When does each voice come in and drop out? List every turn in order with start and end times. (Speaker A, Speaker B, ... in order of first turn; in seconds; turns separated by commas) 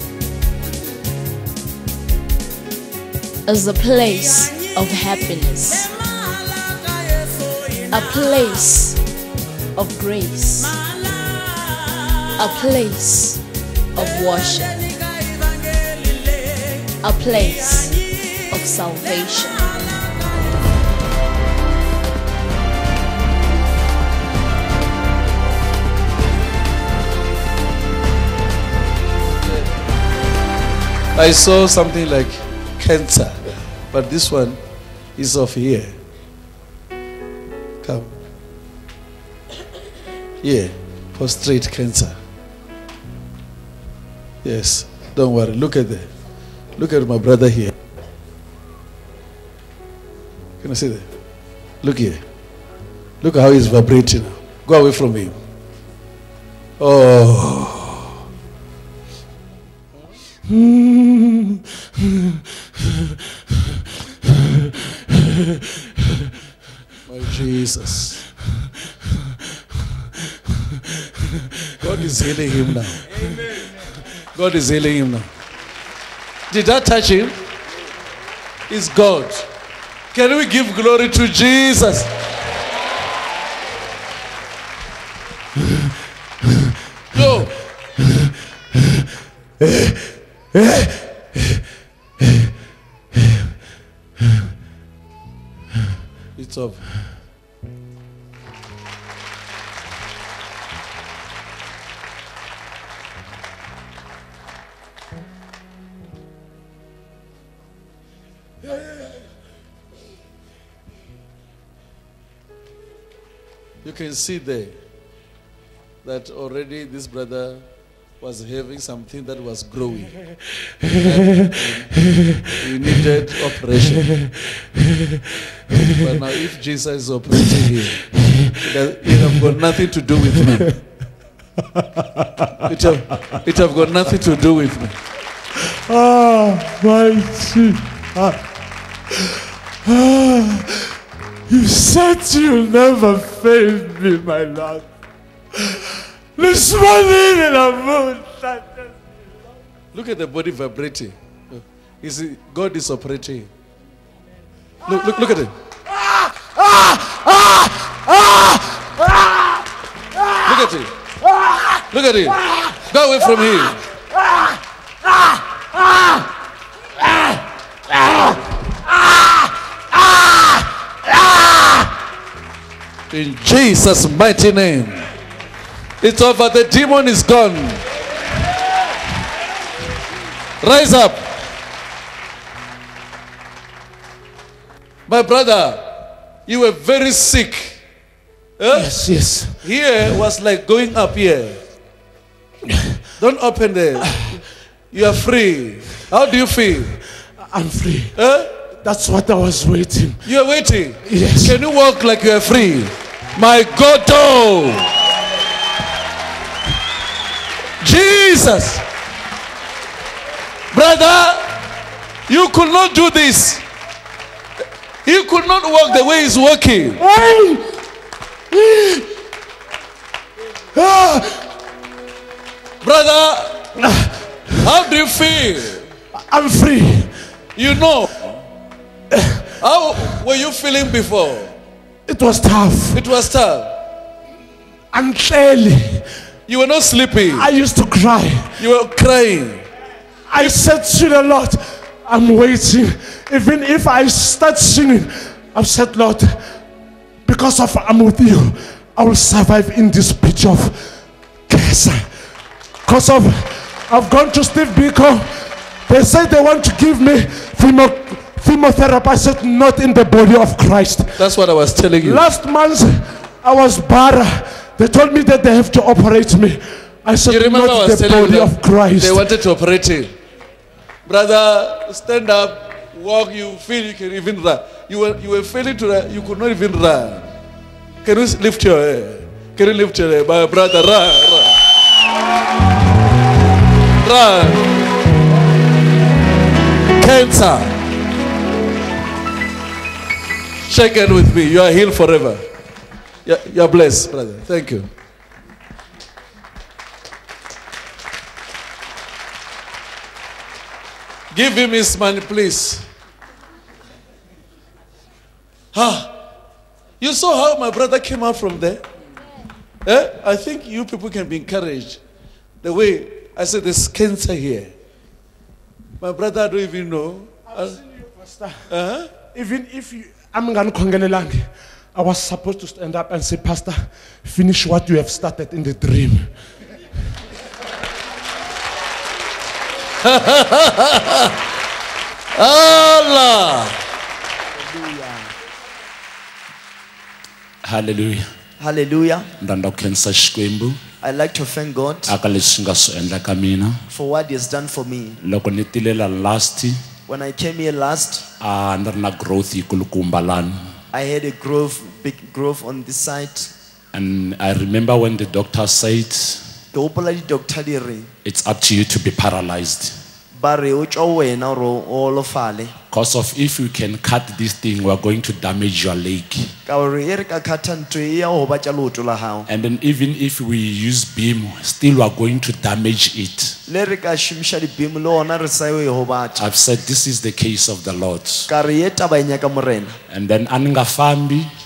Speaker A: 3.5-6.1, Speaker A: 7.9-9.0, Speaker A: 9.7-11.5, Speaker A: 12.4-13.4, Speaker A: 13.9-14.8, Speaker A: 17.0-20.2, Speaker B: 31.1-34.6, Speaker B: 35.1-36.0, Speaker B: 37.8-38.1, Speaker B: 40.4-42.2, Speaker B: 44.4-46.1, Speaker B: 46.8-47.7, Speaker B: 50.6-51.1, Speaker B: 51.8-52.2, Speaker B: 53.2-55.4, Speaker B: 56.8-58.1, Speaker C: 60.5-66.2, Speaker B: 67.0-68.2, Speaker B: 71.8-73.3, Speaker B: 74.2-75.3, Speaker B: 76.5-77.5, Speaker B: 78.7-79.5, Speaker B: 80.1-82.1, Speaker B: 87.1-87.7, Speaker C: 89.6-91.6, Speaker B: 96.3-96.9, Speaker B: 113.8-114.8, Speaker B: 116.0-120.2, Speaker B: 120.8-124.1, Speaker C: 124.1-124.9, Speaker B: 125.9-130.8, Speaker C: 131.8-132.7, Speaker B: 132.6-135.0, Speaker C: 135.6-138.4, Speaker C: 139.1-140.9, Speaker C: 141.5-144.8, Speaker C: 145.5-148.9, Speaker B: 149.9-153.5, Speaker B: 154.8-155.5, Speaker C: 156.1-158.6, Speaker C: 159.2-159.4, Speaker B: 160.4-160.9, Speaker B: 161.8-163.8, Speaker B: 173.1-175.1, Speaker B: 176.0-177.8, Speaker B: 180.6-181.4, Speaker B: 185.1-187.8, Speaker B: 188.6-189.0, Speaker C: 188.7-189.6, Speaker B: 189.6-191.6, Speaker C: 192.7-193.0, Speaker B: 193.2-197.0, Speaker C: 197.4-198.1, Speaker B: 198.1-198.5, Speaker C: 198.8-200.2, Speaker B: 200.2-204.9, Speaker C: 201.0-201.6, Speaker B: 207.8-208.8, Speaker B: 210.7-211.6, Speaker B: 212.3-213.6, Speaker B: 215.0-217.0, Speaker C: 217.0-217.8, Speaker C: 218.5-219.1, Speaker C: 220.7-221.4, Speaker B: 222.8-223.8, Speaker C: 223.8-224.1, Speaker B: 224.5-225.9, Speaker C: 226.1-227.2, Speaker B: 227.5-228.2, Speaker C: 229.1-230.2, Speaker B: 229.6-231.6, Speaker C: 232.1-233.1, Speaker B: 232.9-233.8, Speaker C: 234.9-236.1, Speaker B: 236.5-237.5, Speaker C: 237.3-238.6, Speaker B: 238.6-239.7, Speaker C: 240.3-246.4, Speaker C: 247.2-252.1, Speaker C: 252.8-261.3, Speaker B: 261.2-262.2, Speaker C: 262.0-269.3, Speaker B: 267.3-270.1, Speaker B: 271.0-277.3, Speaker B: 278.0-281.6, Speaker B: 284.0-284.6, Speaker B: 286.9-287.8, Speaker B: 290.7-292.4, Speaker B: 293.2-294.9, Speaker B: 301.3-302.9, Speaker B: 305.7-306.1, Speaker B: 307.0-308.8, Speaker B: 309.8-312.0, Speaker B: 312.6-314.7, Speaker B: 316.0-317.8, Speaker C: 317.7-318.6, Speaker B: 318.7-319.1, Speaker C: 319.3-326.3, Speaker B: 330.0-331.4, Speaker B: 332.3-333.8, Speaker D: 334.5-335.3, Speaker E: 337.6-338.3, Speaker D: 338.6-339.3, Speaker E: 339.4-340.8, Speaker D: 341.0-342.1, Speaker E: 342.1-343.8, Speaker D: 343.9-345.2, Speaker E: 345.2-346.8, Speaker D: 347.1-348.2, Speaker E: 348.4-350.7, Speaker D: 350.9-353.5, Speaker E: 353.9-356.4, Speaker D: 356.7-358.1, Speaker E: 358.2-359.9, Speaker D: 360.3-362.7, Speaker E: 362.9-366.5, Speaker D: 366.6-369.5, Speaker E: 369.5-373.6, Speaker D: 373.7-376.4, Speaker E: 376.4-378.5, Speaker D: 378.5-380.0, Speaker E: 380.1-381.5